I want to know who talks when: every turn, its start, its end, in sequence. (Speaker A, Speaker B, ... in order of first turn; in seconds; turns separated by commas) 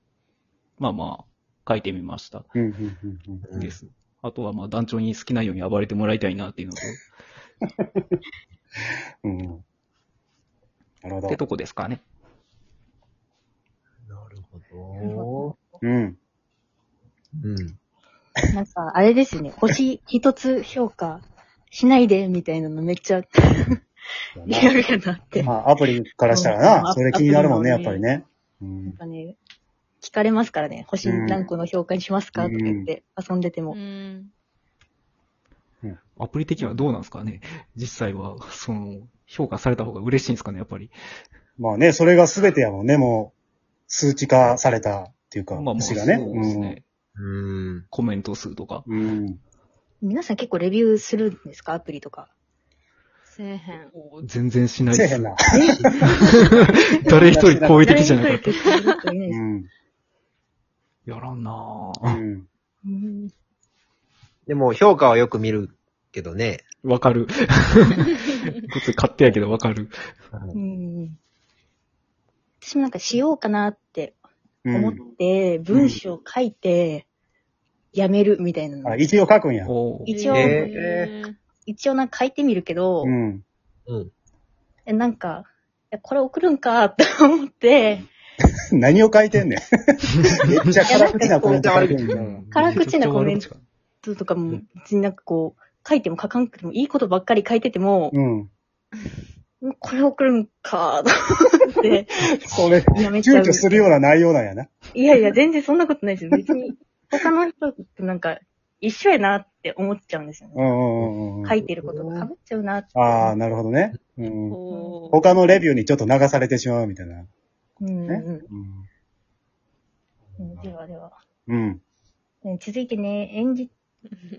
Speaker A: 0.8-2.5, Speaker B: 2.5-3.5, Speaker C: 3.5-3.8, Speaker A: 3.6-7.0, Speaker B: 7.7-8.2, Speaker B: 9.2-9.6, Speaker B: 11.0-11.4, Speaker A: 11.3-12.0, Speaker C: 14.1-15.5, Speaker D: 15.0-15.8, Speaker B: 15.8-16.2, Speaker C: 17.4-17.8, Speaker D: 18.5-23.8, Speaker B: 24.4-24.8, Speaker D: 24.5-25.5, Speaker B: 25.4-29.0, Speaker D: 26.3-28.0, Speaker D: 28.9-29.4, Speaker D: 30.0-33.8, Speaker B: 31.0-31.4, Speaker B: 32.4-32.9, Speaker E: 33.7-34.3, Speaker A: 36.2-40.9, Speaker B: 41.6-43.3, Speaker B: 43.9-46.8, Speaker A: 45.5-46.8, Speaker C: 47.2-47.8, Speaker A: 47.9-48.9, Speaker B: 48.9-49.4, Speaker D: 50.0-52.3, Speaker E: 53.3-53.9, Speaker A: 53.9-55.4, Speaker B: 54.9-55.9, Speaker D: 55.5-56.3, Speaker A: 56.2-58.5, Speaker D: 56.8-57.2, Speaker B: 57.1-58.1, Speaker D: 57.8-59.4, Speaker B: 59.3-59.7, Speaker A: 61.1-62.2, Speaker B: 62.1-62.5, Speaker D: 62.8-63.3, Speaker C: 64.5-66.6, Speaker A: 66.8-70.0, Speaker D: 70.5-71.2, Speaker D: 72.6-74.2, Speaker B: 74.7-75.0, Speaker D: 74.7-77.1, Speaker B: 75.7-76.0, Speaker D: 77.9-79.1, Speaker B: 78.8-79.7, Speaker A: 79.7-80.6, Speaker D: 80.1-80.6, Speaker E: 80.1-81.3, Speaker C: 80.3-81.1, Speaker D: 81.7-83.2, Speaker B: 83.0-83.4, Speaker D: 84.9-88.1, Speaker B: 88.8-92.5, Speaker D: 90.8-91.8, Speaker C: 91.2-92.1, Speaker A: 92.1-93.6, Speaker D: 92.5-93.5, Speaker D: 94.0-98.2, Speaker B: 98.1-98.5, Speaker D: 99.6-102.2, Speaker B: 102.4-104.7, Speaker C: 102.5-103.0, Speaker D: 102.9-103.9, Speaker D: 104.9-110.8, Speaker B: 110.6-111.7, Speaker D: 111.4-113.3, Speaker C: 111.9-112.3, Speaker B: 113.0-114.6, Speaker E: 114.5-115.2, Speaker D: 114.7-115.4, Speaker B: 115.1-117.3, Speaker D: 117.8-118.5, Speaker B: 118.1-118.9, Speaker B: 120.3-120.7, Speaker D: 120.4-121.1, Speaker B: 121.5-121.8, Speaker D: 122.4-123.7